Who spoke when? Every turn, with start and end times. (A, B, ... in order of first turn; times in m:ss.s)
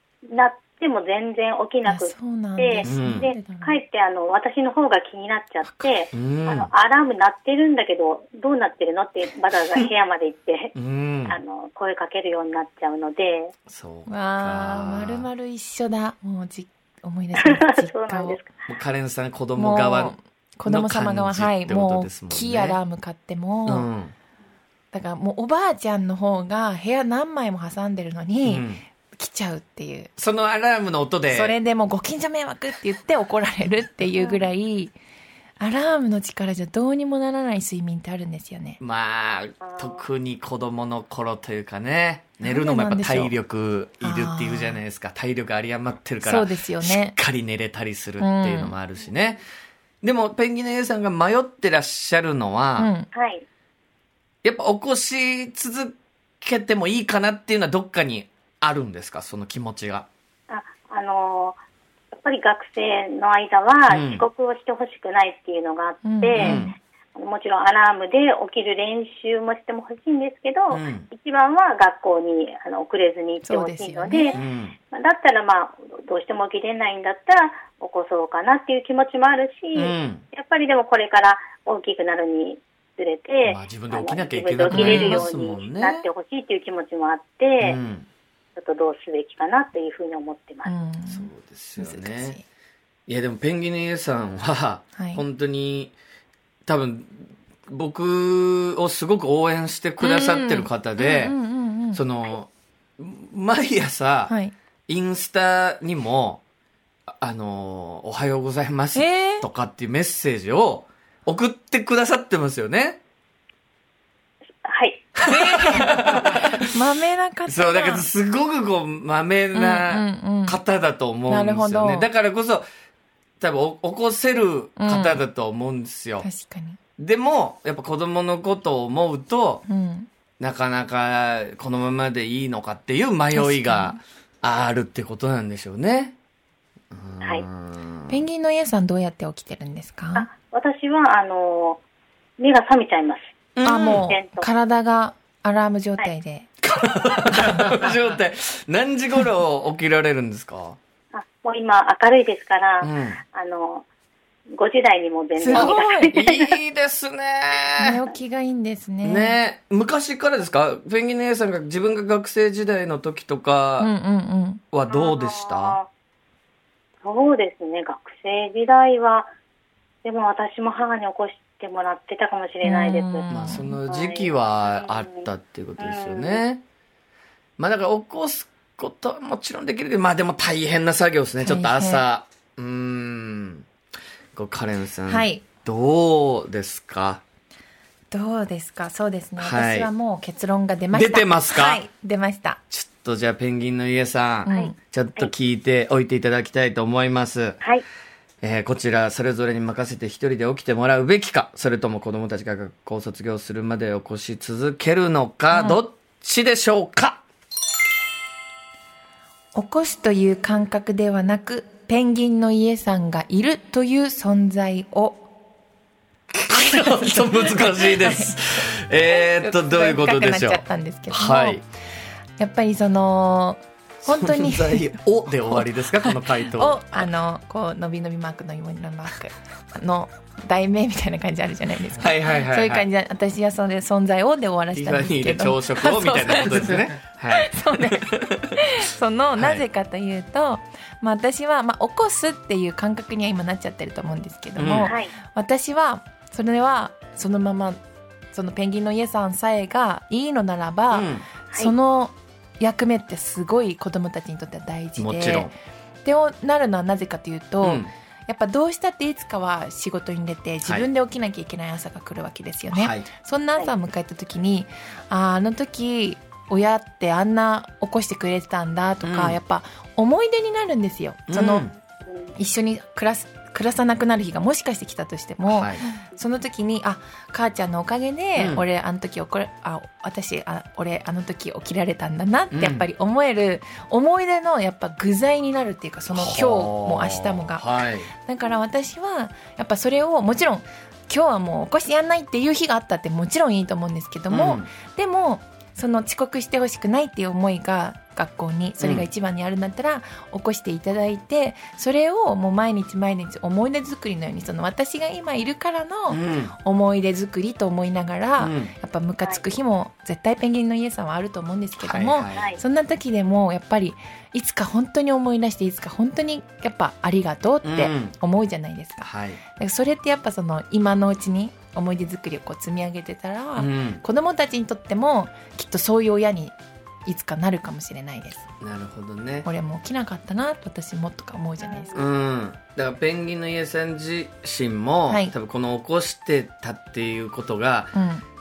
0:00.3-0:10.7 A
0:01.8-0:03.8 B
0:02.8-0:03.3 C
0:06.1-0:06.7 C
0:10.8-0:11.4 C
0:11.3-0:13.5 A
0:13.7-0:15.3 C
0:14.1-0:18.4 B
0:17.4-0:18.5 A
0:18.7-0:22.8 C
0:19.6-0:23.9 B
0:23.7-0:24.1 C
0:24.9-0:30.1 B
0:28.4-0:28.8 C
0:30.2-0:31.6 C
0:31.3-0:35.0 B
0:34.2-0:34.5 A
0:35.6-0:38.8 B
0:38.8-0:49.4 C
0:39.6-0:40.0 A
0:42.4-0:43.4 B
0:44.0-0:44.8 B
0:46.2-0:47.2 B
0:48.2-0:48.8 B
0:50.0-0:52.9 C
0:52.8-0:53.1 B
0:53.1-0:53.4 A
0:54.4-1:00.1 C
1:00.5-1:01.6 A
1:02.1-1:27.8 A
1:03.9-1:04.3 C
1:06.0-1:06.7 B
1:06.4-1:06.7 C
1:10.7-1:11.1 C
1:13.4-1:14.4 B
1:14.3-1:14.8 C
1:19.8-1:20.2 C
1:23.4-1:26.1 C
1:24.7-1:25.3 B
1:27.6-1:28.1 C
1:28.6-1:30.7 A
1:30.6-1:32.4 B
1:31.1-1:32.4 C
1:33.1-1:36.0 C
1:35.0-1:35.2 B
1:36.7-1:41.4 C
1:40.0-1:42.0 B
1:41.9-1:44.3 C
1:44.3-1:44.5 B
1:44.9-1:46.4 C
1:47.2-1:53.0 C
1:49.0-1:49.5 B
1:54.6-1:55.2 A
1:55.2-1:56.8 C
1:55.2-1:58.1 B
1:57.5-2:02.7 C
1:59.5-2:00.6 B
2:01.3-2:02.1 B
2:03.4-2:06.3 C
2:04.8-2:05.2 B
2:06.2-2:06.8 B
2:07.0-2:09.6 C
2:09.7-2:10.1 B
2:10.4-2:16.2 C
2:13.3-2:14.0 B
2:16.9-2:18.2 C
2:18.1-2:20.3 B
2:20.2-2:21.8 A
2:22.4-2:23.2 A
2:23.6-2:24.1 C
2:23.6-2:26.5 B
2:23.8-2:24.5 A
2:26.6-2:30.8 C
2:27.1-2:27.9 A
2:31.1-2:33.8 A
2:32.8-2:33.2 C
2:34.5-2:36.5 A
2:35.4-2:36.1 B
2:35.5-2:38.0 C
2:37.8-2:39.4 B
2:39.0-2:43.9 C
2:43.8-2:44.6 B
2:44.7-2:45.8 C
2:44.9-2:45.9 A
2:47.0-2:49.3 A
2:50.0-2:53.3 A
2:52.6-2:53.8 B
2:53.3-2:56.6 C
2:53.9-2:55.2 A
2:55.8-2:56.4 A
2:57.6-3:03.7 C
3:01.4-3:02.0 B
3:04.4-3:07.2 C
3:05.1-3:05.4 B
3:08.1-3:12.6 B
3:09.4-3:09.9 C
3:10.9-3:11.8 C
3:12.7-3:17.6 C
3:14.5-3:14.8 B
3:14.5-3:15.3 A
3:18.4-3:27.2 C
3:25.5-3:25.8 B
3:29.6-3:35.3 B
3:36.4-3:41.6 C
3:36.5-3:41.6 B
3:42.4-3:44.9 B
3:44.0-3:47.1 C
3:45.6-4:07.8 B
3:52.0-3:52.9 C
3:54.7-3:58.4 C
3:59.4-3:59.6 C
4:04.6-4:04.9 C
4:04.8-4:05.1 A
4:08.3-4:31.7 B
4:10.9-4:11.3 C
4:11.5-4:11.7 A
4:15.0-4:15.5 C
4:17.6-4:17.9 C
4:22.7-4:23.1 C
4:29.0-4:29.4 C
4:31.3-4:31.7 C
4:32.4-5:28.5 B
4:35.5-4:35.8 C
4:38.4-4:38.6 C
4:42.5-4:42.9 C
4:46.1-4:48.1 C
4:54.3-4:54.7 C
4:58.8-4:59.1 C
5:06.1-5:06.6 C
5:08.4-5:08.7 C
5:11.8-5:12.5 C
5:12.3-5:12.6 A
5:17.6-5:18.2 C
5:19.0-5:19.4 C
5:23.6-5:24.0 C
5:28.6-5:29.5 C
5:29.4-5:32.1 B
5:31.6-5:31.9 A
5:31.9-5:37.9 C
5:35.1-5:35.3 B
5:37.9-5:38.2 B